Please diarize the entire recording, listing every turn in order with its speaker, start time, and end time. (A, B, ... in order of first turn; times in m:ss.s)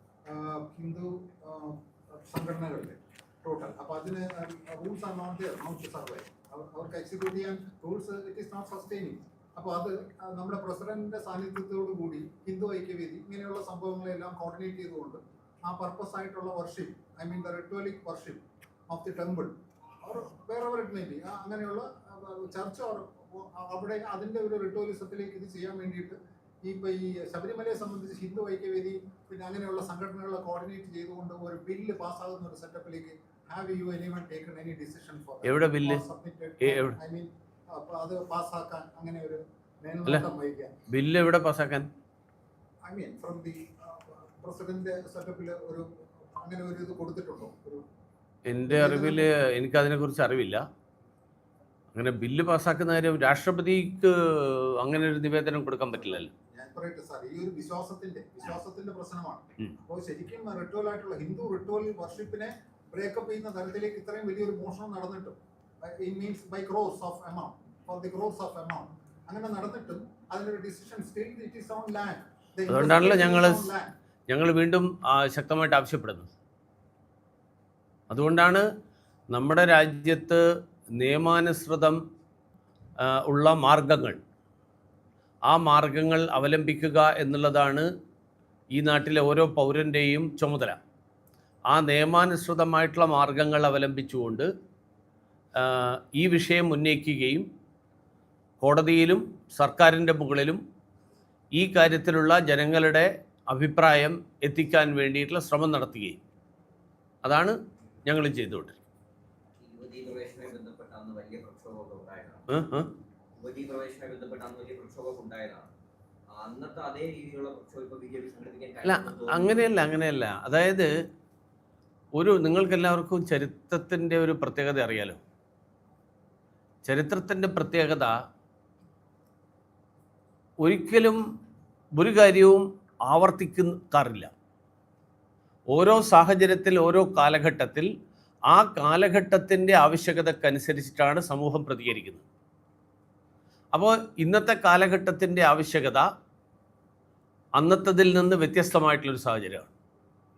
0:00.3-0:19.5 A
0:20.0-0:40.7 A
0:35.4-0:36.0 B
0:36.6-0:37.0 B
0:40.9-0:41.9 B
0:42.8-0:47.8 A
0:48.5-0:50.6 B
0:48.6-0:49.3 A
0:51.9-0:56.3 B
0:56.1-1:13.9 A
1:12.7-1:13.7 B
1:14.3-1:16.3 B
1:18.1-1:18.6 B
1:19.3-1:20.4 B
1:21.0-1:22.0 B
1:23.0-1:24.2 B
1:25.5-1:27.9 B
1:28.7-1:30.8 B
1:31.7-1:34.5 B
1:35.6-1:37.5 B
1:38.6-1:40.6 B
1:41.5-1:46.2 B
1:47.2-1:48.8 B
1:49.6-1:52.5 C
1:52.5-1:52.9 B
1:53.4-1:55.7 C
1:56.4-1:59.7 C
1:58.8-2:00.9 B
2:02.1-2:05.2 B
2:06.8-2:08.1 B
2:10.6-2:11.2 B
2:11.9-2:14.3 B
2:15.7-2:17.9 B
2:18.5-2:22.2 B
2:23.7-2:26.1 B
2:27.6-2:29.7 B